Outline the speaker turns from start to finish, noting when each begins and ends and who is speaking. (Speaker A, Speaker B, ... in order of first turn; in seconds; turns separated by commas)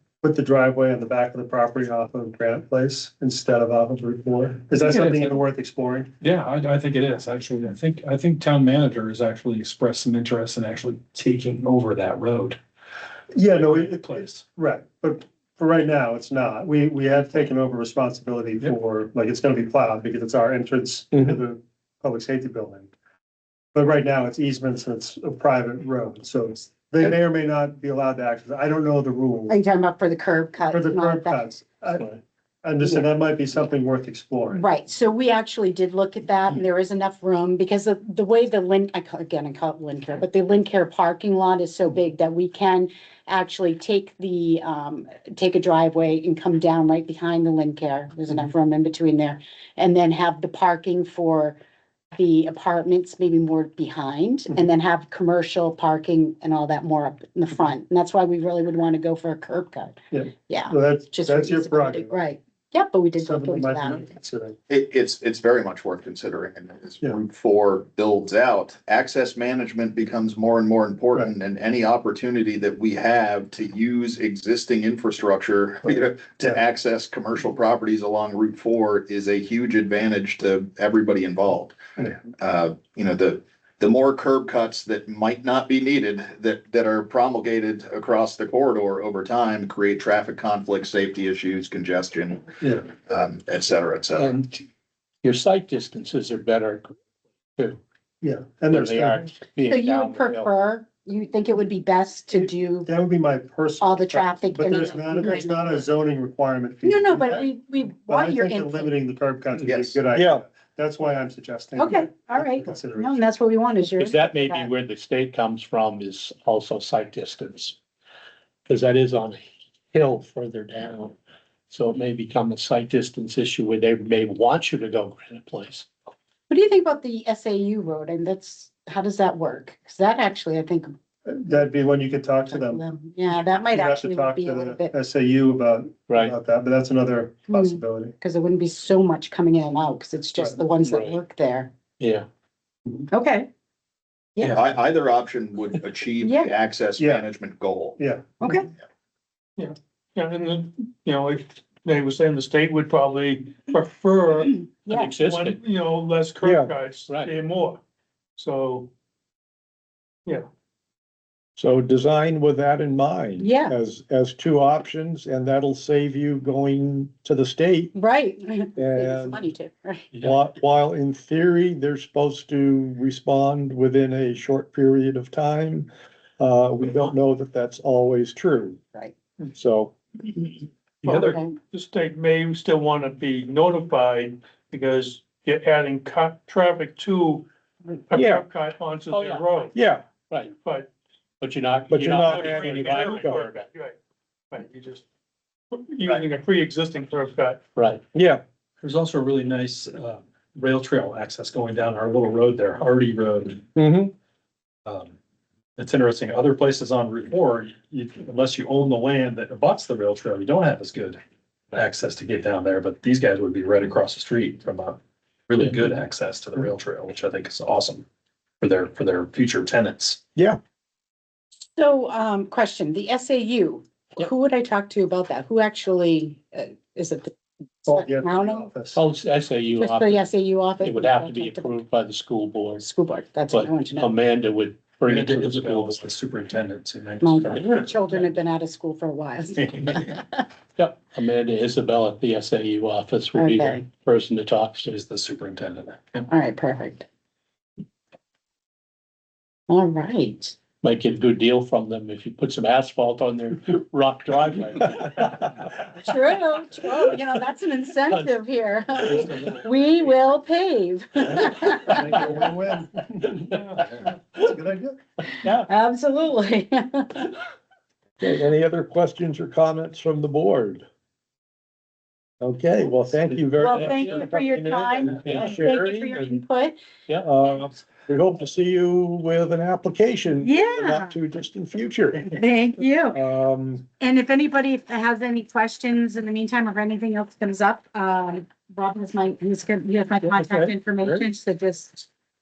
Speaker A: 0.2-6.1, Speaker B: 4.8-5.4, Speaker B: 6.2-12.6, Speaker A: 13.3-22.9, Speaker B: 13.5-14.4, Speaker A: 23.7-29.6, Speaker C: 29.5-31.5, Speaker A: 30.7-34.7, Speaker C: 32.8-33.7, Speaker C: 34.5-51.6, Speaker C: 52.1-64.1, Speaker A: 60.1-62.3, Speaker A: 63.2-64.6, Speaker D: 64.7-81.8, Speaker D: 82.3-94.4, Speaker A: 92.6-92.9, Speaker E: 94.2-94.6, Speaker E: 95.2-96.9, Speaker A: 98.2-99.3, Speaker E: 98.7-100.5, Speaker C: 99.6-102.9, Speaker A: 102.9-107.5, Speaker C: 103.8-105.9, Speaker C: 106.8-108.9, Speaker A: 108.0-113.2, Speaker F: 110.1-110.4, Speaker C: 111.8-114.7, Speaker E: 113.9-117.8, Speaker E: 118.7-121.2, Speaker E: 121.7-125.9, Speaker C: 126.5-130.9, Speaker A: 131.3-132.8, Speaker C: 132.5-134.9, Speaker A: 133.7-138.2, Speaker E: 136.1-136.4, Speaker C: 137.5-141.7, Speaker E: 140.8-141.2, Speaker E: 142.0-142.3, Speaker C: 143.1-143.5, Speaker D: 144.4-148.0, Speaker C: 146.2-146.5, Speaker A: 148.0-148.4, Speaker C: 148.4-148.7, Speaker G: 149.6-157.8, Speaker C: 154.9-155.1, Speaker E: 154.9-155.6, Speaker F: 156.4-156.7, Speaker G: 158.4-158.9, Speaker F: 161.6-167.9, Speaker C: 163.4-163.8, Speaker C: 167.9-170.1, Speaker F: 168.8-169.4, Speaker F: 170.2-178.8, Speaker F: 179.5-179.9, Speaker B: 181.0-181.4, Speaker G: 181.1-189.7, Speaker C: 181.2-181.5, Speaker F: 188.1-188.4, Speaker E: 189.1-189.7, Speaker F: 189.7-190.1, Speaker G: 190.6-190.9, Speaker E: 191.4-193.7, Speaker F: 191.9-193.4, Speaker G: 192.3-194.0, Speaker G: 194.5-195.0, Speaker G: 195.7-197.6, Speaker E: 197.8-198.0, Speaker F: 198.1-198.4, Speaker B: 198.8-203.7, Speaker F: 203.8-204.1, Speaker B: 204.9-205.1, Speaker B: 205.8-211.2, Speaker B: 211.7-218.1, Speaker B: 218.6-220.2, Speaker C: 221.8-227.3, Speaker C: 227.8-228.7, Speaker A: 227.9-229.0, Speaker E: 228.9-232.8, Speaker C: 229.7-231.8, Speaker C: 232.8-234.1, Speaker E: 233.5-236.0, Speaker B: 235.1-238.2, Speaker C: 237.2-240.5, Speaker B: 239.6-240.1, Speaker E: 240.8-244.9, Speaker C: 243.4-243.8, Speaker B: 244.9-246.2, Speaker C: 246.3-247.1, Speaker C: 249.7-250.6, Speaker E: 250.8-255.6, Speaker C: 255.9-262.4, Speaker A: 262.0-263.4, Speaker A: 264.4-265.0, Speaker C: 265.5-267.4, Speaker F: 268.2-270.8, Speaker F: 272.4-276.4, Speaker C: 273.6-276.8, Speaker E: 273.6-274.3, Speaker E: 275.2-275.6, Speaker F: 277.2-282.4, Speaker C: 277.4-277.7, Speaker C: 280.4-281.1, Speaker C: 282.2-283.2, Speaker F: 283.1-283.9, Speaker C: 284.0-292.1, Speaker F: 290.2-291.2